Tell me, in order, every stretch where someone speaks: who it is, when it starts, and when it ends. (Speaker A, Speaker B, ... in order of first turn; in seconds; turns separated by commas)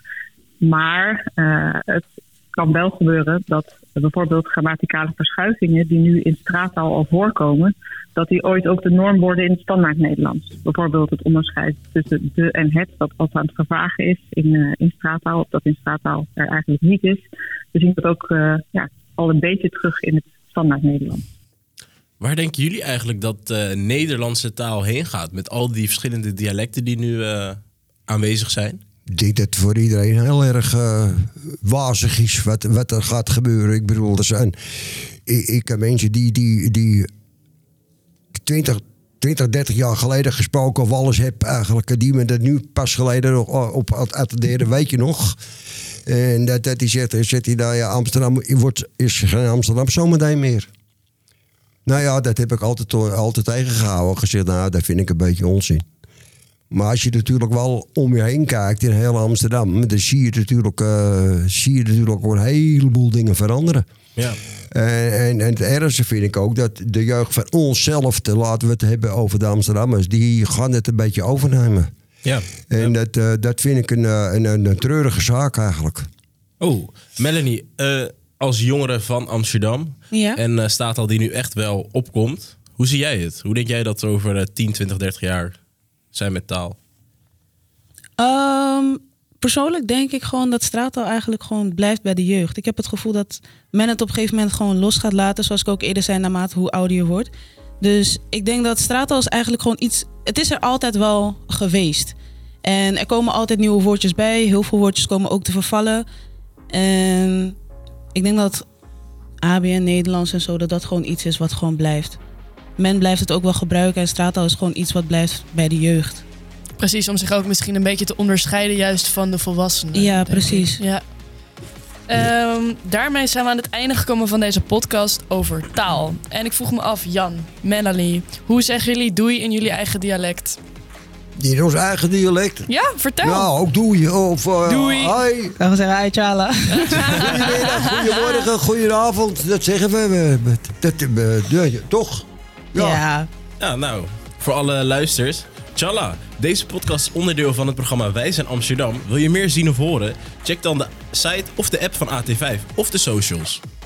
Speaker A: 0.6-21.2, Speaker B: 22.2-28.8, Speaker C: 29.1-37.1, Speaker C: 38.4-45.4, Speaker C: 46.0-50.7, Speaker C: 51.9-55.8, Speaker C: 56.7-63.8, Speaker C: 64.7-71.9, Speaker B: 72.2-72.9, Speaker C: 72.7-76.1, Speaker B: 76.6-85.5, Speaker D: 80.1-80.4, Speaker B: 86.1-86.8, Speaker D: 88.2-97.3, Speaker D: 97.8-106.0, Speaker D: 106.7-107.5, Speaker D: 108.1-108.6, Speaker D: 109.4-112.2, Speaker D: 112.8-116.2, Speaker E: 116.8-121.0, Speaker D: 119.9-120.8, Speaker E: 122.1-130.6, Speaker C: 131.4-132.7, Speaker E: 132.7-133.5, Speaker C: 133.2-135.5, Speaker E: 134.7-135.2, Speaker D: 135.6-137.5, Speaker E: 136.7-138.4, Speaker C: 137.0-143.0, Speaker D: 142.8-143.3, Speaker B: 143.6-153.6